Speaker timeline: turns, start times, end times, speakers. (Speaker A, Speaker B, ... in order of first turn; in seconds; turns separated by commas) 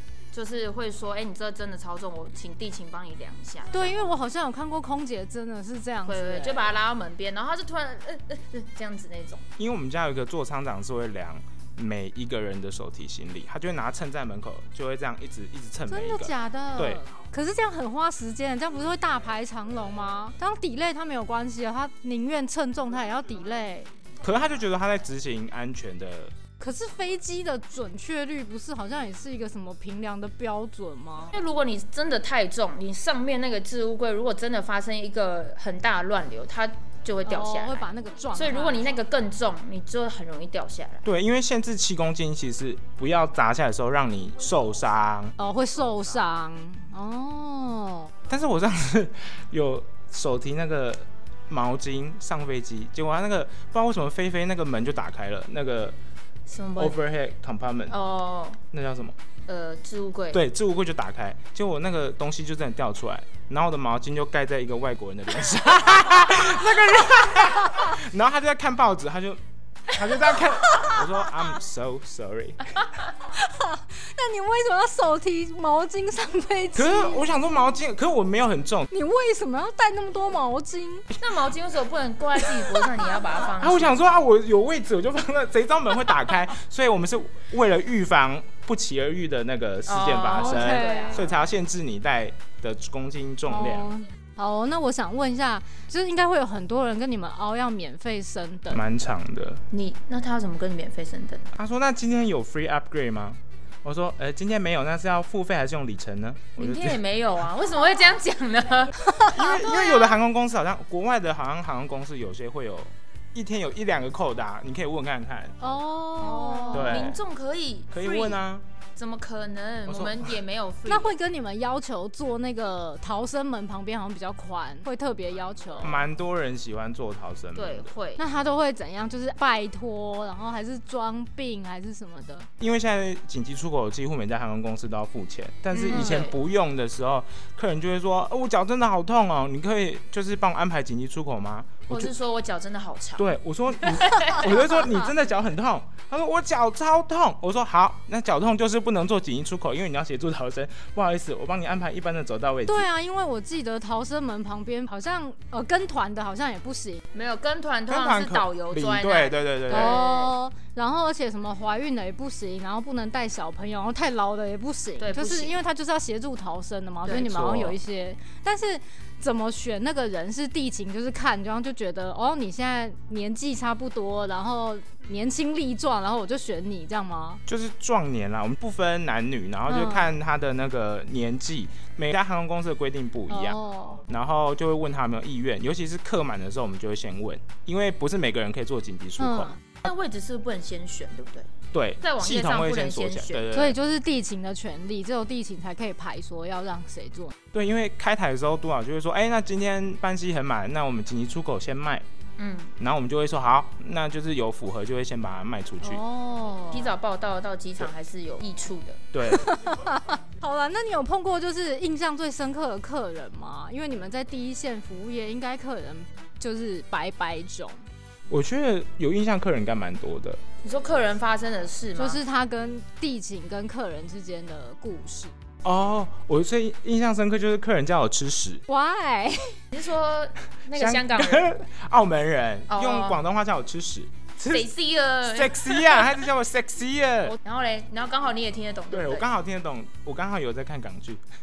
Speaker A: 0.3-4.0, Speaker B: 3.7-6.8, Speaker A: 6.0-9.4, Speaker C: 9.6-17.0, Speaker B: 15.9-23.9, Speaker C: 24.2-26.3, Speaker B: 26.6-31.3, Speaker A: 31.3-41.0, Speaker B: 37.2-39.0, Speaker C: 41.0-45.4, Speaker B: 45.4-48.1, Speaker C: 48.3-56.0, Speaker A: 56.5-57.0, Speaker C: 56.8-57.9, Speaker A: 57.9-58.6, Speaker C: 58.7-59.1, Speaker A: 59.5-60.4, Speaker C: 60.3-72.8, Speaker B: 73.2-77.3, Speaker C: 76.7-78.9, Speaker B: 78.9-81.1, Speaker A: 81.2-84.0, Speaker C: 83.5-93.9, Speaker A: 89.9-91.4, Speaker B: 90.4-91.2, Speaker B: 93.5-98.8, Speaker C: 98.7-99.6, Speaker A: 99.7-101.5, Speaker C: 101.5-107.0, Speaker A: 106.6-109.1, Speaker B: 109.0-109.4, Speaker C: 109.2-115.7, Speaker B: 115.6-117.1, Speaker A: 116.2-118.4, Speaker C: 116.7-117.2, Speaker C: 117.9-118.6, Speaker A: 119.0-121.2, Speaker C: 119.9-120.3, Speaker B: 120.8-126.0, Speaker C: 125.8-127.9, Speaker A: 127.5-128.2, Speaker B: 128.2-132.5, Speaker C: 132.6-142.1, Speaker A: 135.7-136.3, Speaker A: 141.9-144.9, Speaker C: 143.2-152.9, Speaker B: 152.7-157.0, Speaker A: 157.1-160.3, Speaker C: 157.9-160.0, Speaker B: 159.7-177.4, Speaker A: 165.0-165.6, Speaker A: 167.0-167.3, Speaker C: 167.1-167.8, Speaker C: 177.5-189.5, Speaker B: 179.7-180.1, Speaker B: 183.3-184.0, Speaker B: 189.2-189.6, Speaker A: 189.8-193.5, Speaker C: 191.7-193.8, Speaker B: 193.5-197.3, Speaker C: 197.5-202.0, Speaker A: 202.4-202.7, Speaker C: 202.8-206.0, Speaker B: 205.8-206.9, Speaker A: 206.7-209.0, Speaker C: 209.1-209.5, Speaker B: 209.2-217.8, Speaker C: 218.3-220.4, Speaker A: 220.6-222.2, Speaker B: 221.9-225.3, Speaker C: 225.6-228.6, Speaker B: 228.7-229.6, Speaker A: 229.7-231.6, Speaker C: 230.7-234.7, Speaker A: 232.7-233.2, Speaker A: 234.4-236.2, Speaker C: 235.2-237.4, Speaker A: 237.3-239.3, Speaker C: 238.9-241.2